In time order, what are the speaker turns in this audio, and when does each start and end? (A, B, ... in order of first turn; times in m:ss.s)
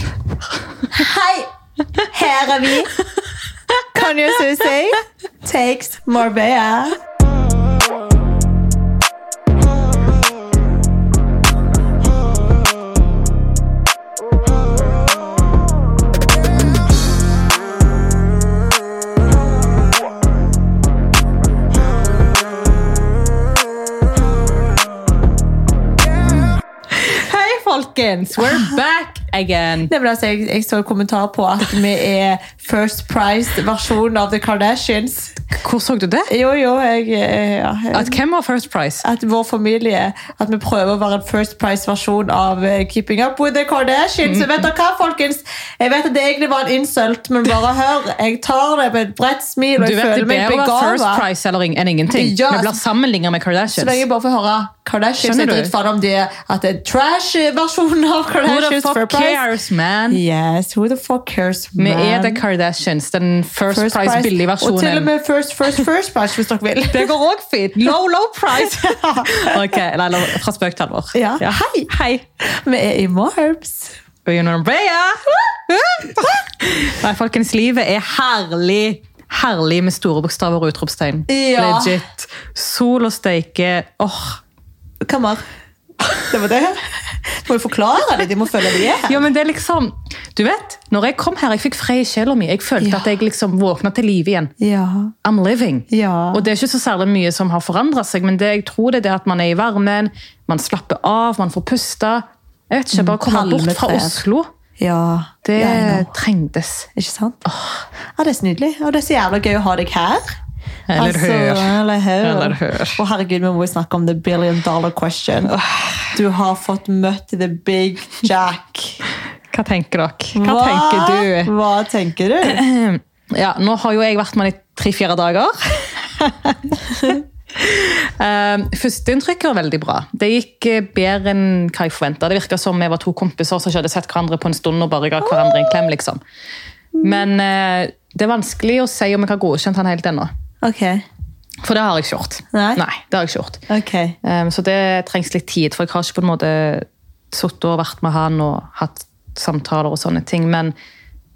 0:00.9-0:01.5 A
0:02.0-0:02.9 A
0:03.9-0:07.0 A
0:26.9-0:29.9 B
0:29.9-0:35.4 A
0:35.6-0:36.3 B
0:36.3-0:38.2 A
0:37.9-0:39.0 B
0:39.0-0:51.2 A
0:44.2-0:44.7 B
0:49.8-0:54.0 B
0:52.1-0:52.8 A
0:53.7-0:59.4 A
0:55.2-0:55.7 B
0:58.4-1:00.2 B
1:00.1-1:02.4 A
1:01.8-1:05.1 B
1:03.7-1:07.1 A
1:06.9-1:12.2 B
1:08.6-1:09.6 A
1:11.1-1:11.9 A
1:12.4-1:14.0 A
1:14.3-1:24.4 B
1:21.3-1:22.0 A
1:25.0-1:25.4 A
1:26.1-1:29.2 A
1:29.1-1:34.5 B
1:32.8-1:33.1 A
1:34.6-1:35.1 A
1:35.2-1:44.5 B
1:35.9-1:36.4 A
1:42.9-1:44.2 A
1:44.8-1:46.1 A
1:45.4-1:46.9 B
1:47.0-1:47.4 A
1:47.5-1:47.8 B
1:48.2-1:50.2 A
1:50.9-1:53.0 B
1:51.0-1:55.6 A
1:55.5-1:56.1 B
1:56.1-1:59.0 A
1:59.5-2:01.5 B
2:00.3-2:02.6 A
2:02.4-2:16.2 B
2:15.4-2:15.8 A
2:17.0-2:17.3 A
2:17.0-2:20.3 B
2:20.6-2:21.0 A
2:21.6-2:23.6 B
2:22.5-2:22.8 A
2:23.7-2:24.2 A
2:24.2-2:30.7 B